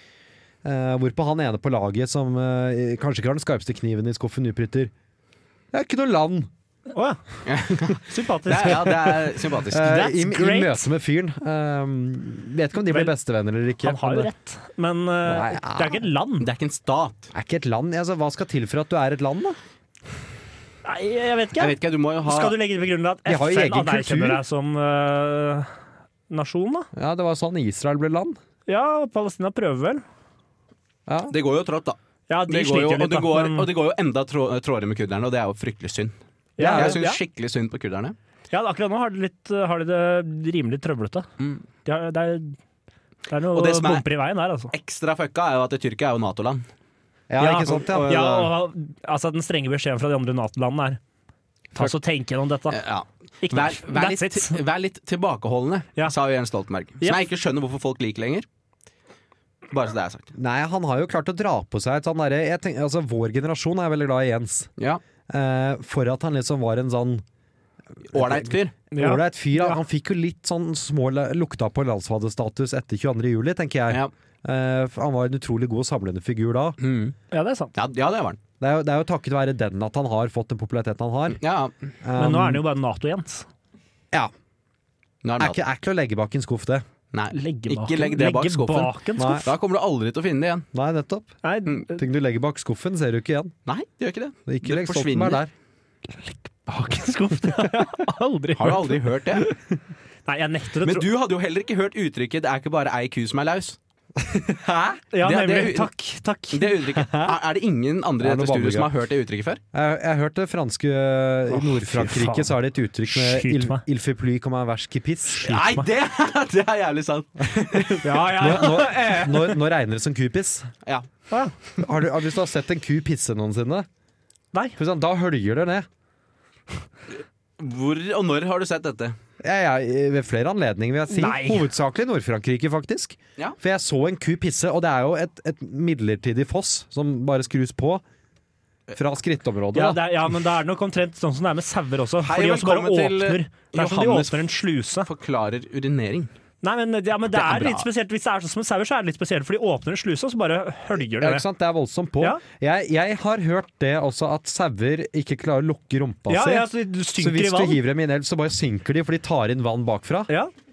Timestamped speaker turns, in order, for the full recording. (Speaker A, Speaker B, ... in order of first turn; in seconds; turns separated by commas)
Speaker A: 0.6-4.9, Speaker A: 5.7-6.5, Speaker B: 6.9-7.2, Speaker C: 7.5-9.8, Speaker B: 7.9-10.8, Speaker A: 9.7-14.3, Speaker B: 13.8-16.5, Speaker A: 15.2-16.0, Speaker C: 16.4-17.3, Speaker A: 17.3-19.6, Speaker B: 20.9-25.7, Speaker C: 21.6-22.6, Speaker A: 23.3-24.4, Speaker B: 26.3-26.9, Speaker A: 26.9-28.4, Speaker B: 28.7-30.0, Speaker A: 31.1-31.3, Speaker C: 31.3-32.0, Speaker B: 32.3-33.7, Speaker C: 32.5-36.1, Speaker B: 36.6-37.2, Speaker A: 36.6-37.0, Speaker C: 36.7-38.2, Speaker B: 38.5-41.3, Speaker B: 41.9-42.6, Speaker B: 43.3-44.7, Speaker C: 43.5-44.0, Speaker C: 44.7-46.6, Speaker A: 47.3-48.5, Speaker B: 47.4-51.0, Speaker C: 47.7-48.3, Speaker B: 51.7-52.8, Speaker C: 52.7-58.5, Speaker B: 53.4-54.6, Speaker C: 59.7-60.3, Speaker A: 60.4-64.7, Speaker A: 65.3-67.2, Speaker C: 68.1-68.8, Speaker A: 68.1-76.8, Speaker B: 68.9-69.8, Speaker C: 76.8-77.2, Speaker B: 77.3-77.8, Speaker C: 77.8-78.4, Speaker A: 78.6-81.4, Speaker C: 81.4-81.7, Speaker A: 82.0-82.6, Speaker B: 82.2-83.5, Speaker C: 85.2-85.6, Speaker A: 85.4-86.8, Speaker C: 87.1-90.7, Speaker B: 87.3-89.5, Speaker A: 89.2-89.5, Speaker A: 90.7-91.3, Speaker B: 91.4-92.0, Speaker A: 91.9-93.5, Speaker C: 93.7-95.4, Speaker A: 94.5-95.5, Speaker B: 96.2-99.0, Speaker C: 98.6-99.5, Speaker B: 100.3-101.1, Speaker C: 100.8-103.8, Speaker A: 104.2-105.0, Speaker B: 105.1-106.7, Speaker C: 105.2-105.9, Speaker C: 106.5-109.6, Speaker A: 106.9-107.4, Speaker A: 108.2-108.9, Speaker A: 109.7-115.8, Speaker B: 111.5-112.5, Speaker B: 113.1-113.8, Speaker C: 115.3-118.0, Speaker A: 117.4-120.7, Speaker B: 118.0-119.6, Speaker A: 121.8-123.9, Speaker A: 124.8-125.9, Speaker C: 127.6-129.2, Speaker A: 129.4-138.0, Speaker B: 131.1-131.7, Speaker A: 139.0-140.0, Speaker B: 139.7-145.1, Speaker C: 142.2-144.5, Speaker C: 145.1-146.3, Speaker B: 146.6-151.4, Speaker C: 147.3-147.9, Speaker A: 151.2-160.3, Speaker B: 156.3-157.8